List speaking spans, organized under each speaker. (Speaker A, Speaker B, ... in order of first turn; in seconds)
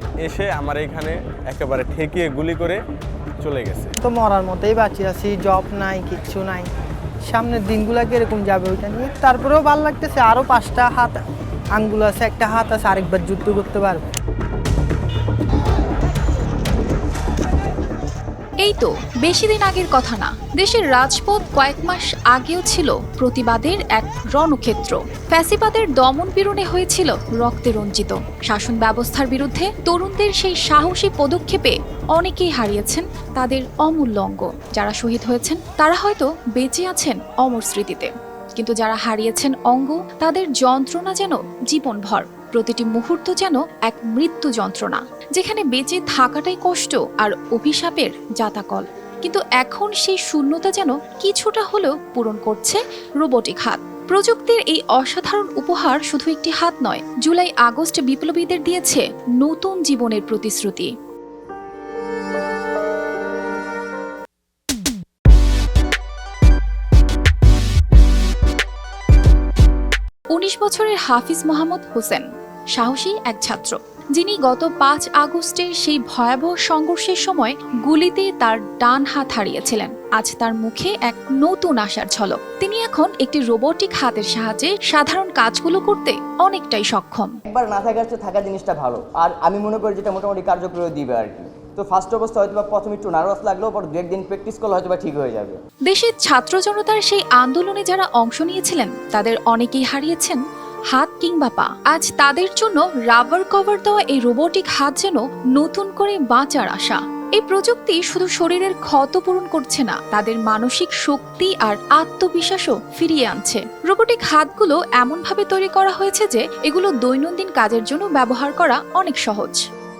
Speaker A: 0.2-2.8, 3.4-3.9
Speaker B: 4.0-6.7, 7.3-11.2, 11.7-14.0
Speaker C: 18.6-60.9, 70.3-87.3, 95.9-100.4, 100.9-119.6
Speaker D: 87.5-95.6